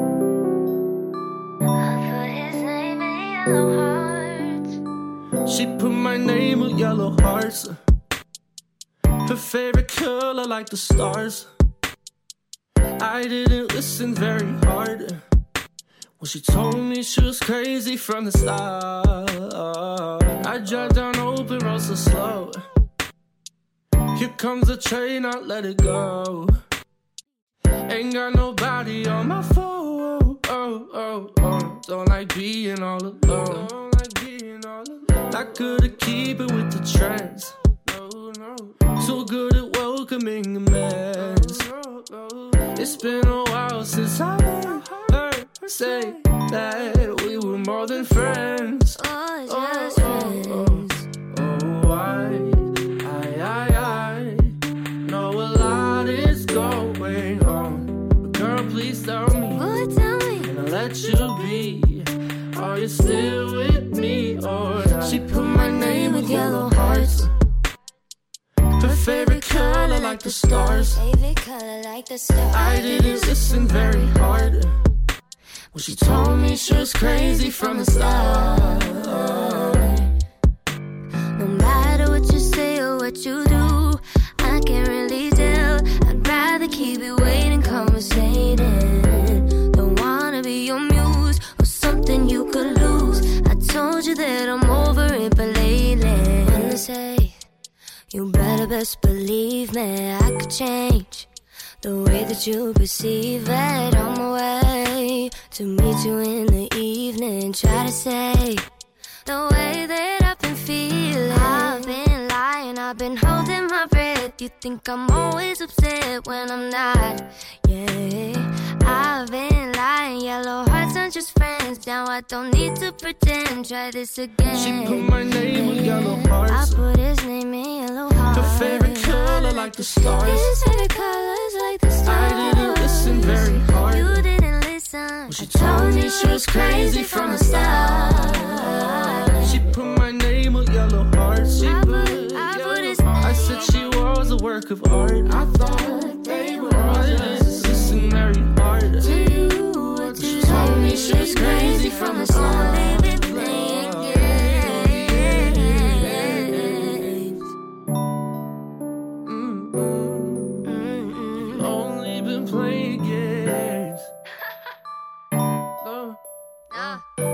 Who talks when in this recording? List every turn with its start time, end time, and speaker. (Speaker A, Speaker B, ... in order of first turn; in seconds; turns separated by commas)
Speaker A: 1.7-4.8, Speaker B: 5.5-7.8, Speaker B: 9.2-11.5, Speaker B: 13.0-15.2, Speaker B: 16.2-22.6, Speaker B: 24.1-26.6, Speaker B: 27.9-59.7, Speaker A: 49.0-51.1, Speaker A: 59.5-60.5, Speaker B: 60.4-67.3, Speaker A: 65.0-67.3, Speaker B: 68.8-71.0, Speaker A: 68.8-74.2, Speaker B: 72.5-74.8, Speaker B: 75.7-80.0, Speaker A: 75.7-80.1, Speaker A: 81.3-97.4, Speaker A: 98.1-101.3, Speaker A: 101.8-108.7, Speaker A: 109.3-139.7, Speaker B: 111.4-111.7, Speaker B: 124.5-126.8, Speaker B: 128.3-130.6, Speaker B: 132.0-134.3, Speaker B: 135.3-157.2, Speaker A: 141.6-143.8, Speaker A: 145.6-148.1, Speaker A: 149.0-157.4, Speaker B: 159.2-160.7, Speaker A: 160.7-161.7, Speaker B: 161.5-164.1, Speaker B: 165.8-166.2